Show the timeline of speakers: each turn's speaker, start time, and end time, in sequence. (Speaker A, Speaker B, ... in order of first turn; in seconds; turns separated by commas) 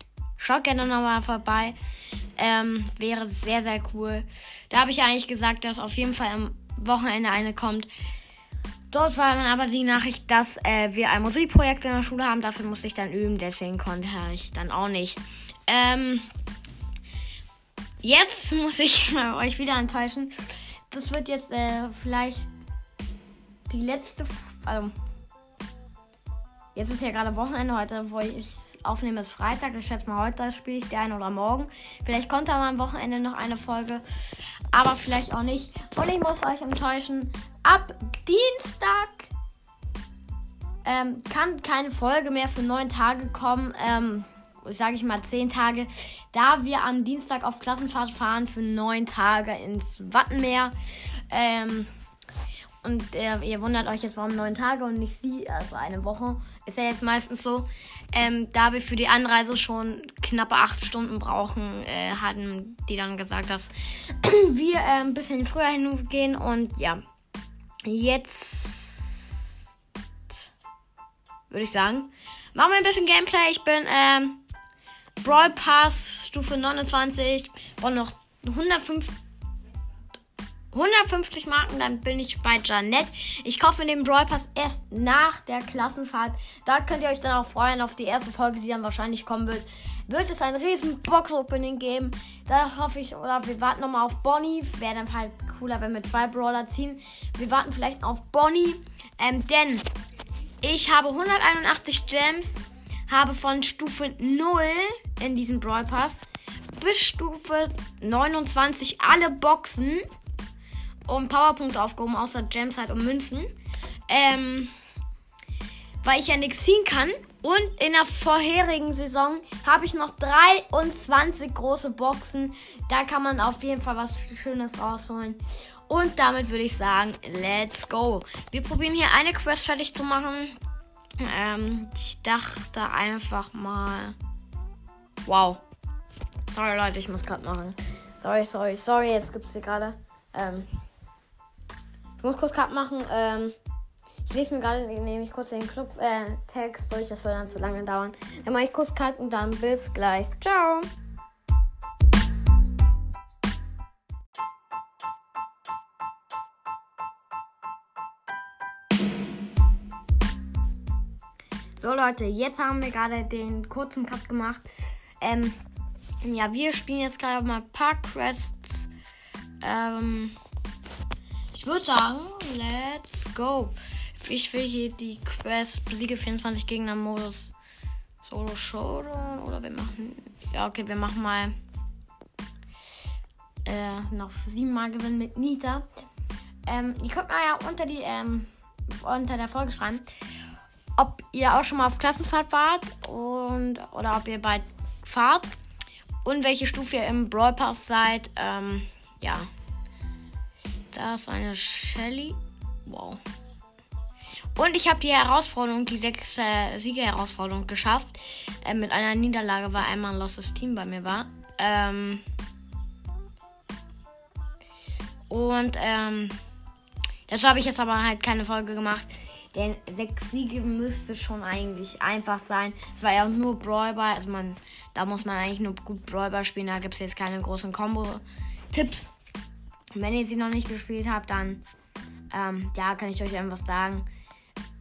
Speaker A: 0.4-1.8, Speaker A: 2.4-7.9, Speaker A: 8.9-16.3, Speaker A: 18.0-20.4, Speaker A: 20.9-22.5, Speaker A: 23.7-24.9, Speaker A: 26.7-34.0, Speaker A: 34.7-39.3, Speaker A: 40.8-51.9, Speaker A: 52.8-67.0, Speaker A: 67.8-69.4, Speaker A: 71.5-74.4, Speaker A: 75.2-79.2, Speaker A: 80.7-99.8, Speaker A: 100.6-110.1, Speaker A: 111.1-113.5, Speaker A: 114.1-114.7, Speaker A: 116.0-130.6, Speaker A: 131.2-134.2, Speaker A: 135.2-135.6, Speaker A: 136.5-140.7, Speaker A: 142.2-143.6, Speaker A: 144.2-150.9, Speaker A: 161.8-165.6, Speaker A: 166.2-168.9, Speaker A: 169.6-170.4, Speaker A: 171.5-177.5, Speaker A: 178.2-181.5, Speaker A: 183.6-185.8, Speaker A: 186.7-190.1, Speaker A: 191.0-195.5, Speaker A: 196.2-199.5, Speaker A: 200.9-203.2, Speaker A: 204.6-212.2, Speaker A: 215.3-216.4, Speaker A: 217.3-229.1, Speaker A: 229.9-231.6, Speaker A: 232.3-234.1